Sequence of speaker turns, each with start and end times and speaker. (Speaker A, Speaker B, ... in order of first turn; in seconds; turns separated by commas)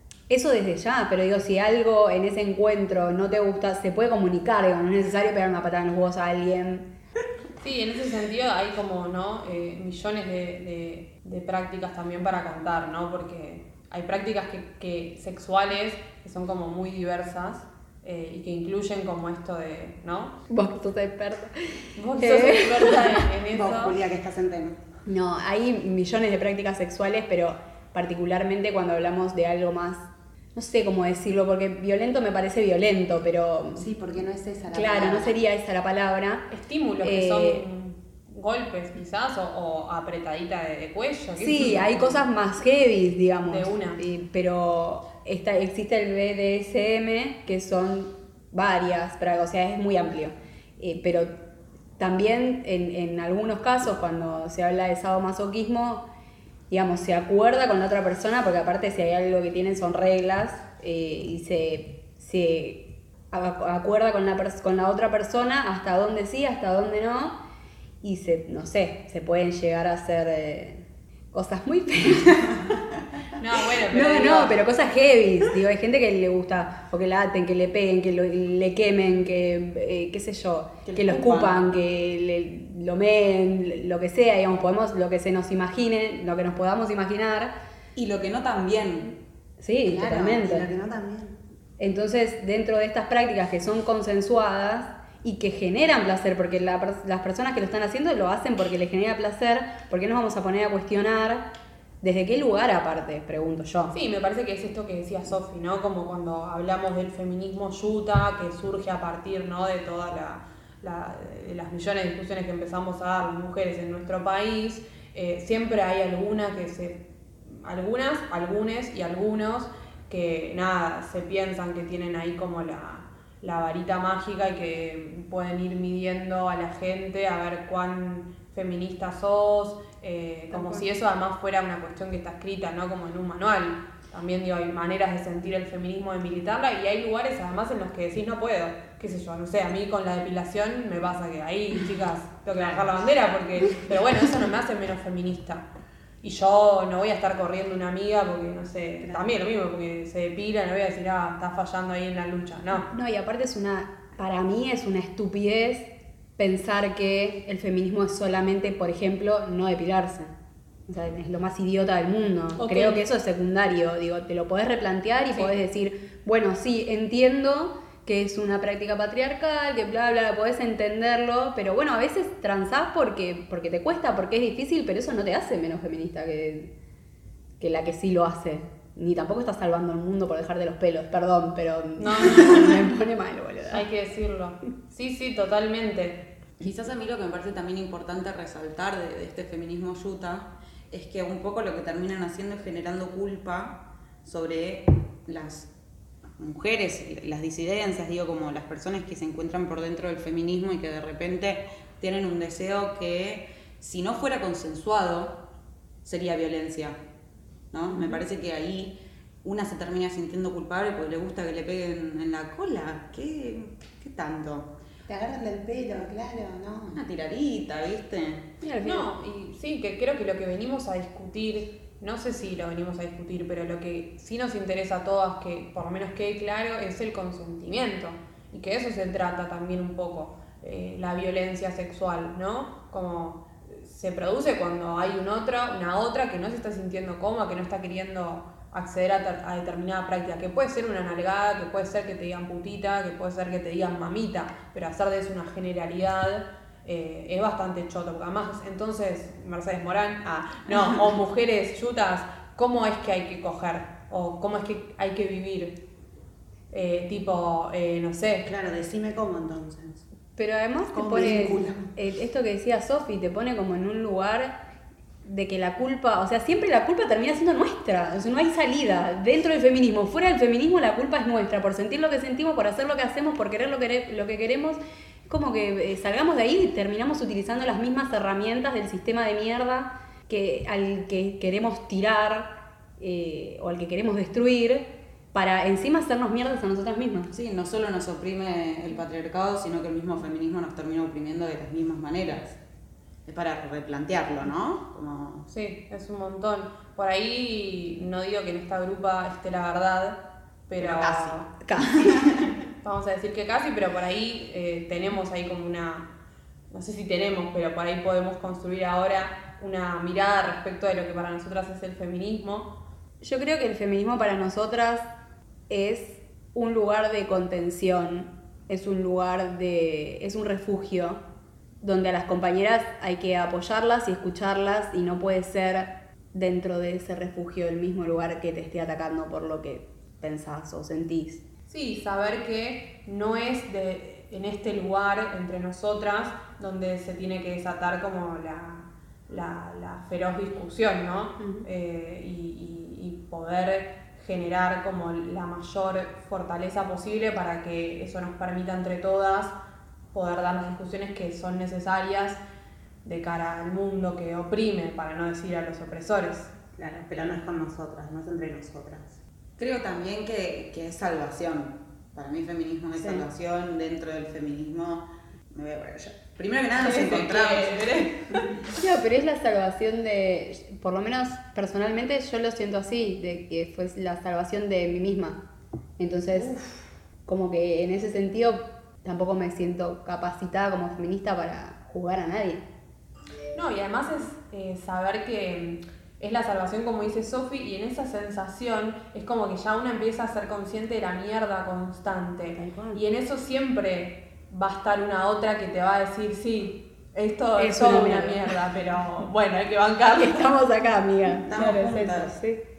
Speaker A: 0.3-6.9, Speaker B: 7.6-20.4, Speaker A: 20.5-23.3, Speaker B: 22.0-24.0, Speaker C: 23.6-24.8, Speaker A: 25.1-33.9, Speaker D: 33.8-35.3, Speaker A: 34.7-36.5, Speaker B: 36.5-42.2, Speaker A: 37.0-37.6, Speaker A: 41.4-51.4, Speaker B: 43.5-44.0, Speaker A: 52.0-56.0, Speaker A: 56.7-67.4, Speaker A: 68.0-72.7, Speaker B: 73.4-74.6, Speaker A: 73.9-87.5, Speaker C: 80.8-81.6, Speaker C: 88.0-89.2, Speaker A: 89.6-90.7, Speaker D: 89.9-91.3, Speaker C: 90.1-90.7, Speaker A: 91.8-101.5, Speaker A: 102.0-104.0, Speaker B: 103.9-145.7, Speaker A: 130.5-130.8, Speaker B: 146.2-152.9, Speaker A: 152.9-160.3, Speaker A: 160.9-176.7, Speaker B: 162.6-163.0, Speaker B: 165.2-165.5, Speaker A: 177.6-183.9, Speaker B: 182.0-182.8, Speaker B: 183.7-186.2, Speaker C: 186.6-195.7, Speaker C: 196.4-205.4, Speaker C: 206.0-207.0, Speaker C: 207.7-214.7, Speaker D: 215.1-217.0, Speaker C: 216.9-218.5, Speaker A: 218.6-219.1, Speaker B: 218.8-255.8, Speaker B: 256.7-258.5, Speaker D: 258.5-259.7, Speaker C: 258.6-260.0, Speaker A: 260.4-264.6, Speaker D: 260.9-261.8, Speaker A: 265.2-287.3, Speaker C: 287.3-292.6, Speaker C: 293.3-295.5, Speaker B: 295.5-301.5, Speaker C: 300.8-301.4, Speaker A: 301.6-302.1, Speaker C: 302.0-302.4, Speaker B: 302.8-306.1, Speaker B: 306.7-312.7, Speaker A: 313.2-315.1, Speaker A: 315.7-321.2, Speaker A: 321.8-331.4, Speaker B: 331.7-349.6, Speaker A: 341.4-341.7, Speaker B: 350.1-352.4, Speaker B: 353.0-356.5, Speaker C: 356.8-357.4, Speaker D: 356.8-359.0, Speaker C: 358.6-358.9, Speaker C: 359.6-368.0, Speaker A: 363.0-363.2, Speaker B: 366.7-368.6, Speaker A: 368.8-375.4, Speaker A: 376.0-376.6, Speaker A: 377.3-382.6, Speaker B: 383.6-400.5, Speaker A: 392.6-393.0, Speaker A: 397.6-398.6, Speaker A: 400.1-402.6, Speaker C: 401.5-402.4